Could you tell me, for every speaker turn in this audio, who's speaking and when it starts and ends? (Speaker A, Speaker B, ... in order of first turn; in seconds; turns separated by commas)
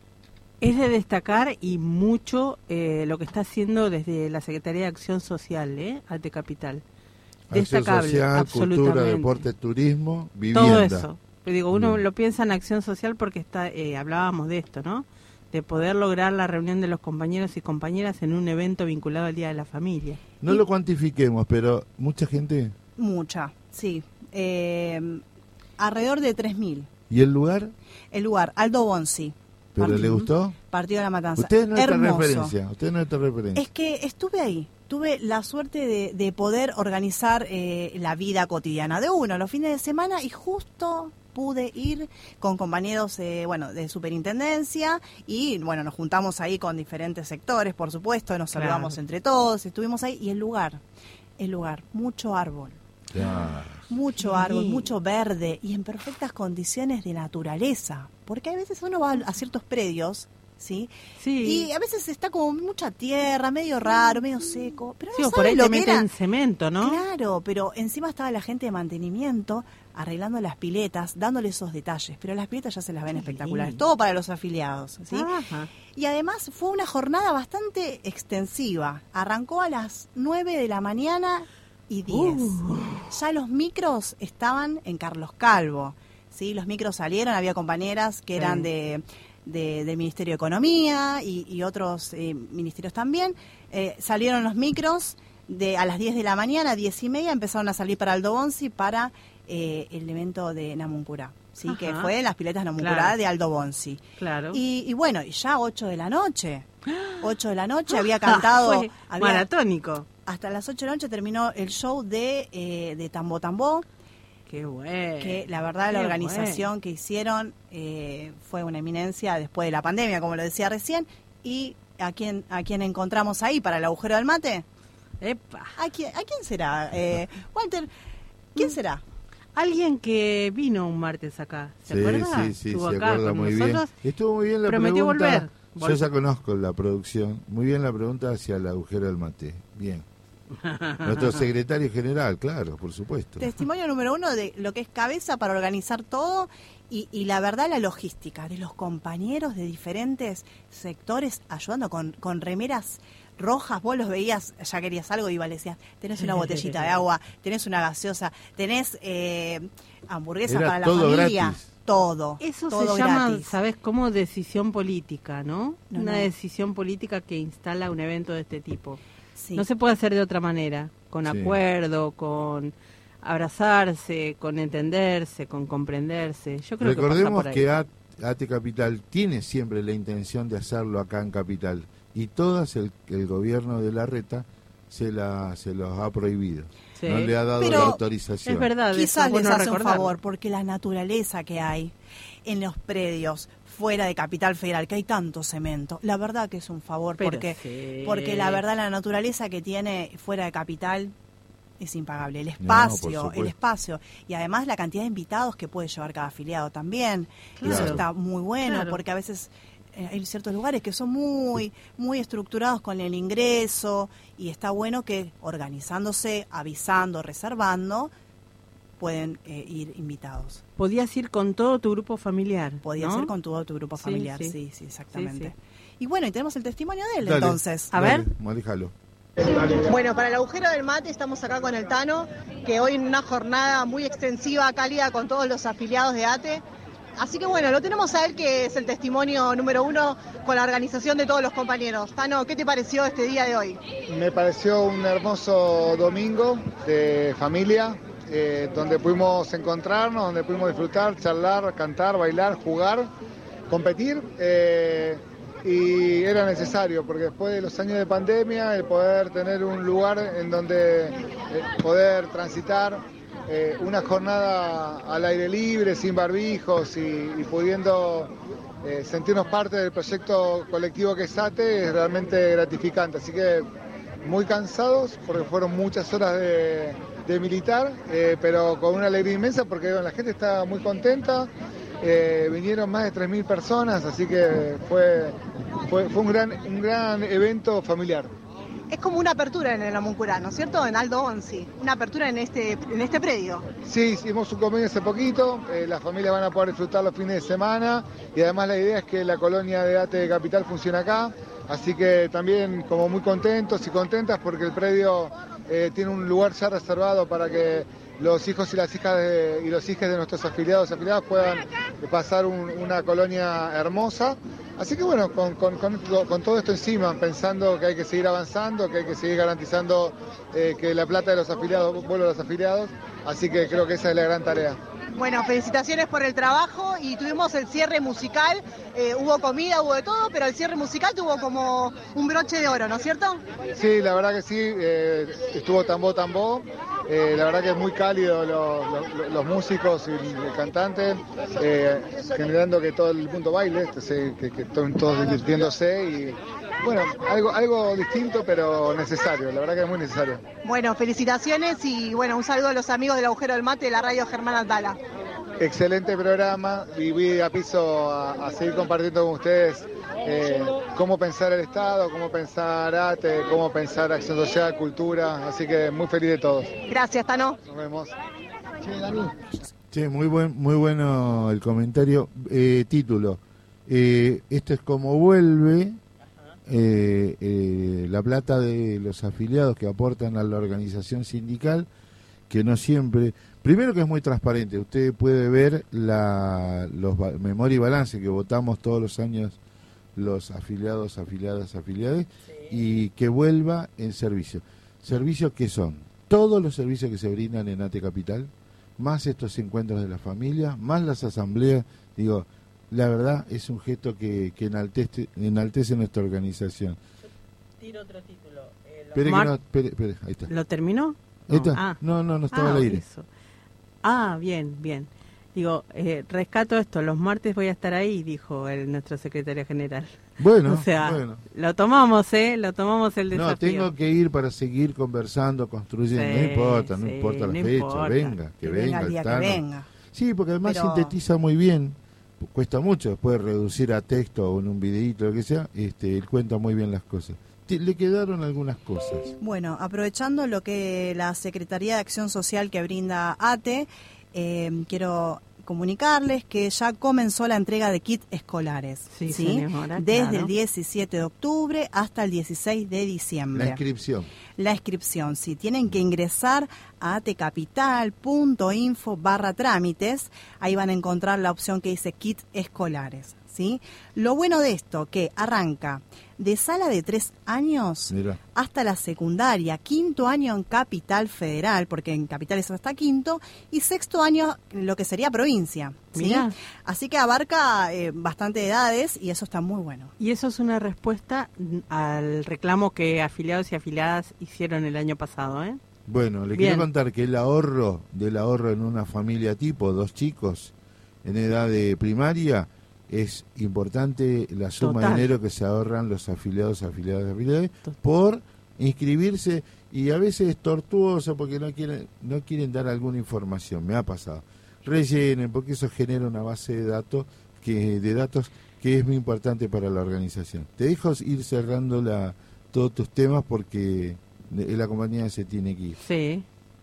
Speaker A: 0.6-6.8, Speaker B: 7.5-11.1, Speaker A: 7.5-9.4, Speaker A: 10.5-20.2, Speaker B: 11.7-12.0, Speaker B: 20.4-22.8, Speaker C: 23.0-25.2, Speaker C: 25.8-26.9, Speaker B: 27.1-27.7, Speaker C: 28.1-32.6, Speaker B: 29.8-30.6, Speaker B: 31.4-33.6, Speaker C: 33.5-50.8, Speaker A: 48.5-49.0, Speaker C: 51.4-52.8, Speaker B: 53.1-53.9, Speaker C: 53.9-66.1, Speaker A: 54.2-54.9, Speaker A: 61.2-61.7, Speaker A: 65.1-67.0, Speaker C: 66.8-75.3, Speaker A: 73.1-73.8, Speaker A: 75.1-75.7, Speaker C: 75.9-82.6, Speaker A: 82.1-83.1, Speaker C: 83.1-106.7, Speaker A: 88.4-88.7, Speaker A: 101.7-102.1, Speaker A: 102.8-103.2, Speaker A: 104.2-104.6, Speaker A: 106.9-107.3, Speaker C: 107.2-109.5, Speaker A: 107.9-110.1, Speaker C: 110.2-113.8, Speaker A: 114.5-116.7, Speaker C: 115.2-124.7, Speaker A: 125.2-125.8, Speaker C: 125.8-127.9, Speaker C: 128.5-129.0, Speaker A: 129.5-133.9, Speaker B: 131.9-140.1, Speaker A: 134.7-136.0, Speaker A: 140.7-141.1, Speaker B: 141.0-143.5, Speaker C: 143.4-163.5, Speaker A: 156.2-156.8, Speaker B: 160.5-161.7, Speaker A: 162.4-169.0, Speaker C: 165.9-166.3, Speaker C: 169.3-169.7, Speaker A: 169.5-177.7, Speaker B: 171.3-171.6, Speaker B: 176.8-188.7, Speaker A: 187.0-190.1, Speaker C: 187.6-188.0, Speaker C: 188.9-201.1, Speaker A: 197.2-198.6, Speaker C: 201.8-218.1, Speaker B: 202.6-203.5, Speaker A: 207.6-208.0, Speaker B: 207.6-208.0, Speaker A: 208.6-209.0, Speaker C: 219.0-220.6, Speaker A: 220.8-223.3, Speaker C: 222.8-227.9, Speaker A: 224.0-224.6, Speaker A: 225.1-225.5, Speaker B: 227.2-228.9, Speaker A: 227.9-228.2, Speaker D: 229.8-236.6, Speaker D: 237.2-243.8, Speaker E: 244.1-253.1, Speaker E: 253.7-273.6, Speaker E: 274.2-281.5, Speaker E: 282.0-288.3, Speaker D: 288.9-293.7, Speaker C: 289.1-289.8, Speaker C: 290.3-292.7, Speaker E: 293.8-324.8, Speaker D: 325.1-333.4, Speaker E: 333.8-350.4, Speaker D: 350.6-355.0, Speaker E: 355.6-366.8, Speaker D: 366.9-367.6, Speaker E: 367.6-368.1, Speaker E: 368.8-369.3, Speaker B: 369.9-376.0, Speaker B: 376.6-381.9, Speaker B: 382.5-389.6, Speaker B: 390.1-407.0, Speaker A: 407.8-409.5, Speaker B: 409.1-410.5, Speaker A: 410.5-413.3, Speaker B: 411.5-413.0, Speaker A: 414.0-423.9, Speaker B: 420.4-421.4, Speaker B: 423.3-439.4, Speaker A: 426.1-428.4, Speaker C: 428.6-429.9, Speaker C: 430.6-431.1, Speaker C: 439.4-453.8, Speaker A: 449.1-450.5, Speaker B: 453.5-454.3, Speaker C: 454.6-480.1, Speaker B: 468.1-468.4, Speaker A: 476.1-476.5, Speaker A: 480.2-485.8, Speaker B: 486.1-490.7, Speaker A: 486.5-486.9, Speaker B: 491.2-516.0, Speaker A: 494.8-495.3, Speaker A: 516.0-516.5